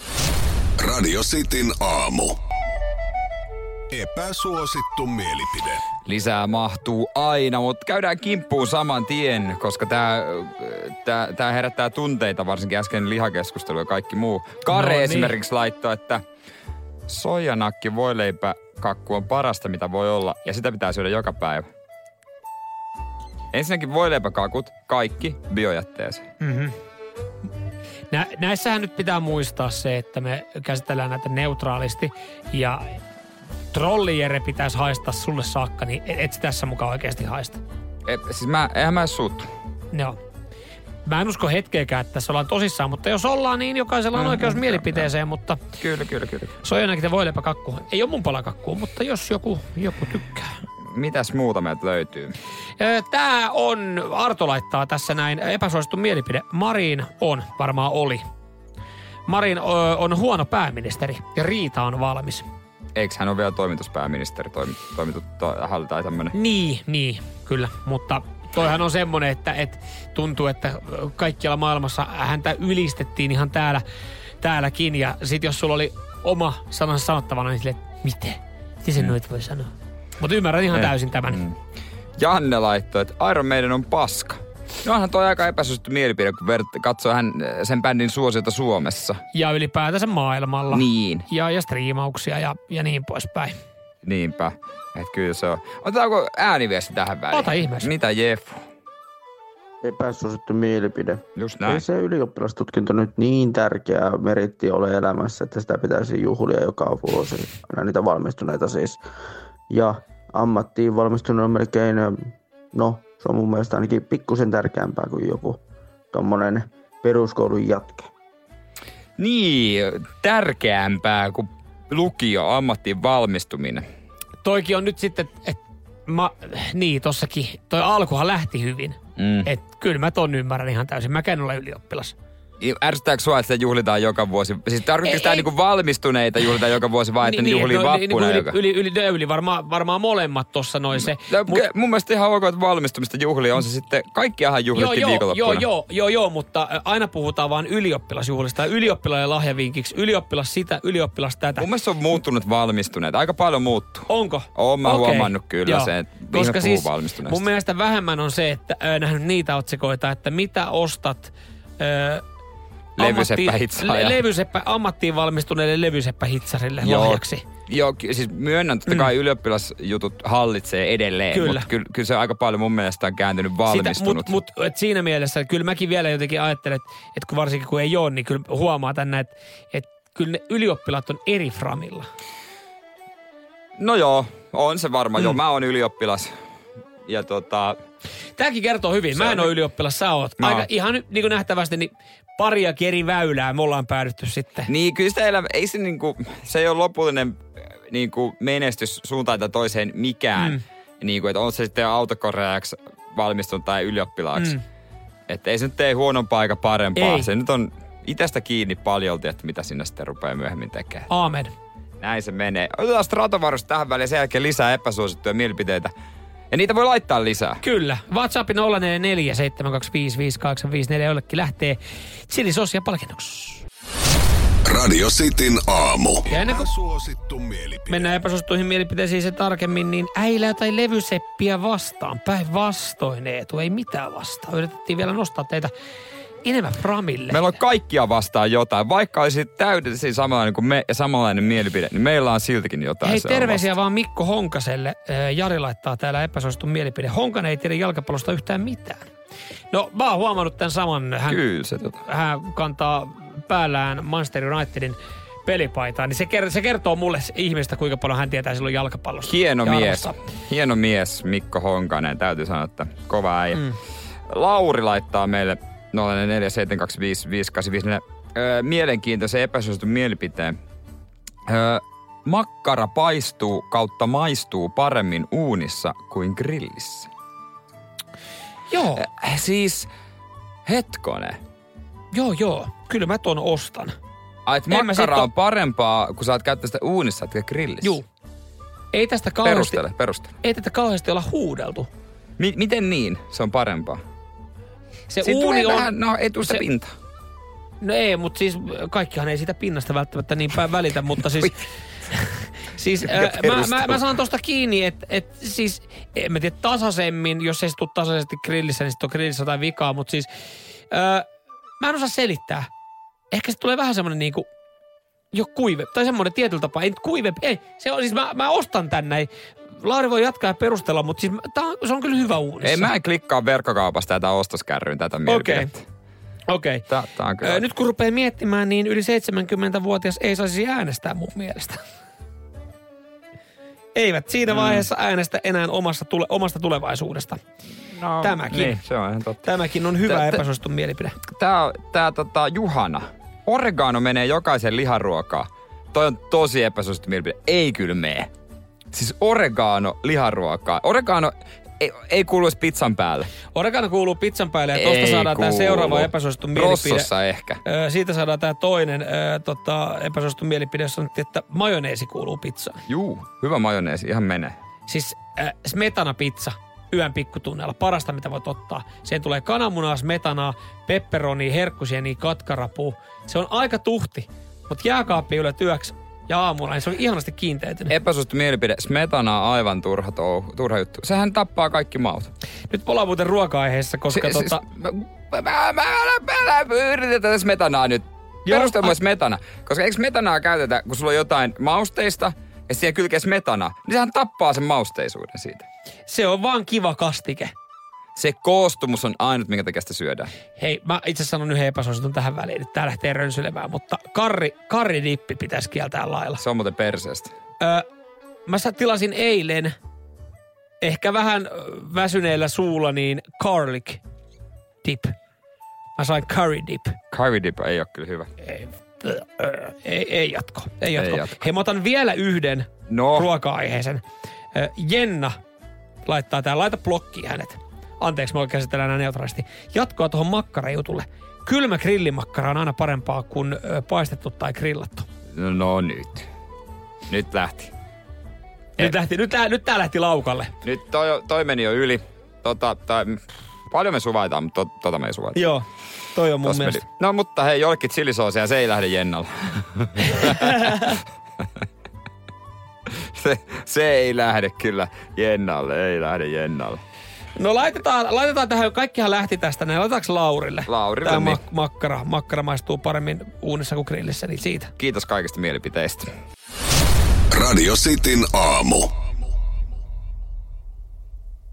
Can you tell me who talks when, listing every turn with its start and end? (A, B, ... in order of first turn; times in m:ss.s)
0:00.8-0:02.4 A
0:03.9-0:05.8 A
0:06.0-0:16.2 B
0:14.7-0:15.3 C
0:17.1-0:21.7 B
0:23.5-0:26.2 B
0:26.4-0:26.7 C
0:28.1-0:33.0 C
0:33.7-0:37.6 C
0:38.0-0:39.5 B
0:39.9-0:40.2 C
0:41.0-0:45.6 C
0:44.1-0:45.1 B
0:45.8-0:46.5 B
0:46.6-0:50.5 C
0:50.9-0:52.4 B
0:52.8-0:58.2 C
0:59.2-1:02.4 C
1:02.9-1:06.3 B
1:06.3-1:13.8 C
1:14.4-1:21.4 C
1:20.7-1:21.5 B
1:22.2-1:29.2 B
1:29.3-1:33.5 C
1:30.7-1:31.2 B
1:34.0-1:38.6 B
1:37.3-1:37.9 C
1:39.8-1:49.0 D
1:41.4-1:41.8 B
1:49.7-1:55.6 D
1:56.1-1:58.1 D
1:59.2-2:03.8 B
2:04.4-2:12.1 C
2:09.2-2:09.5 B
2:12.6-2:18.6 B
2:15.0-2:15.5 C
2:17.2-2:21.6 C
2:21.1-2:25.6 B
2:24.7-2:31.6 C
2:31.6-2:37.4 B
2:34.1-2:42.2 C
2:43.0-2:44.2 B
2:43.0-2:47.4 C
2:46.8-2:54.4 B
2:51.3-2:51.6 C
2:53.7-3:02.1 C
3:03.8-3:06.3 B
3:07.0-3:07.8 B
3:08.4-3:14.7 C
3:09.1-3:09.5 B
3:10.4-3:10.7 B
3:14.7-3:24.6 B
3:25.3-3:31.1 B
3:27.0-3:27.3 C
3:31.1-3:31.5 C
3:32.0-3:35.9 B
3:36.5-3:37.6 B
3:37.6-3:43.6 C
3:44.6-3:48.1 A
3:46.3-3:46.7 C
3:47.9-3:55.7 C
3:56.4-3:57.5 C
3:57.3-4:03.7 B
4:03.0-4:09.0 C
4:09.7-4:11.4 C
4:11.3-4:12.0 B
4:12.1-4:20.1 C
4:19.2-4:23.6 B
4:24.3-4:30.6 B
4:31.5-4:37.1 B
4:38.7-4:39.0 C
4:39.0-4:39.9 B
4:40.6-4:41.4 B
4:42.1-4:43.9 C
4:44.5-4:48.0 B
4:44.7-4:45.3 C
4:48.9-4:49.8 C
4:49.4-4:50.3 B
4:50.4-4:51.9 C
4:52.4-4:54.0 B
4:55.1-4:56.6 C
4:55.2-4:56.9 B
4:57.8-5:10.3 C
5:03.0-5:04.1 B
5:10.9-5:11.2 C
5:11.8-5:12.7 C
5:13.3-5:14.5 C
5:15.3-5:22.9 C
5:22.6-5:25.8 B
5:25.3-5:25.7 C
5:26.5-5:26.8 C
5:26.9-5:27.6 B
5:27.4-5:31.8 C
5:33.9-5:37.4 C
5:34.5-5:34.8 B
5:37.9-5:39.5 B
5:38.2-5:38.8 C
5:39.4-5:41.1 C
5:40.1-5:40.4 B
5:41.3-5:48.3 B
5:48.9-5:53.3 B
5:53.5-5:57.1 C
5:54.7-5:57.6 B
5:57.6-6:02.8 C
6:02.9-6:04.6 B
6:04.9-6:17.9 C
6:17.9-6:22.3 B
6:22.7-6:24.6 C
6:24.1-6:35.6 B
6:28.5-6:29.0 C
6:36.1-6:37.5 C
6:38.2-6:40.3 B
6:40.6-6:46.4 C
6:46.4-6:47.3 B
6:47.6-6:47.8 C
6:48.5-6:49.7 C
6:50.8-6:54.0 C
6:54.8-6:55.1 C
6:56.0-6:57.0 C
6:57.1-6:58.3 B
6:58.4-7:04.0 C
7:01.0-7:01.4 B
7:02.9-7:03.3 B
7:04.5-7:05.4 C
7:06.0-7:15.1 C
7:15.3-7:16.2 B
7:17.1-7:17.7 B
7:18.8-7:20.5 C
7:20.6-7:25.4 B
7:25.3-7:26.8 C
7:26.4-7:30.8 B
7:30.2-7:30.8 C
7:32.9-7:36.8 B
7:37.4-7:44.7 C
7:40.7-7:41.4 B
7:44.8-7:46.1 B
7:47.3-7:48.9 A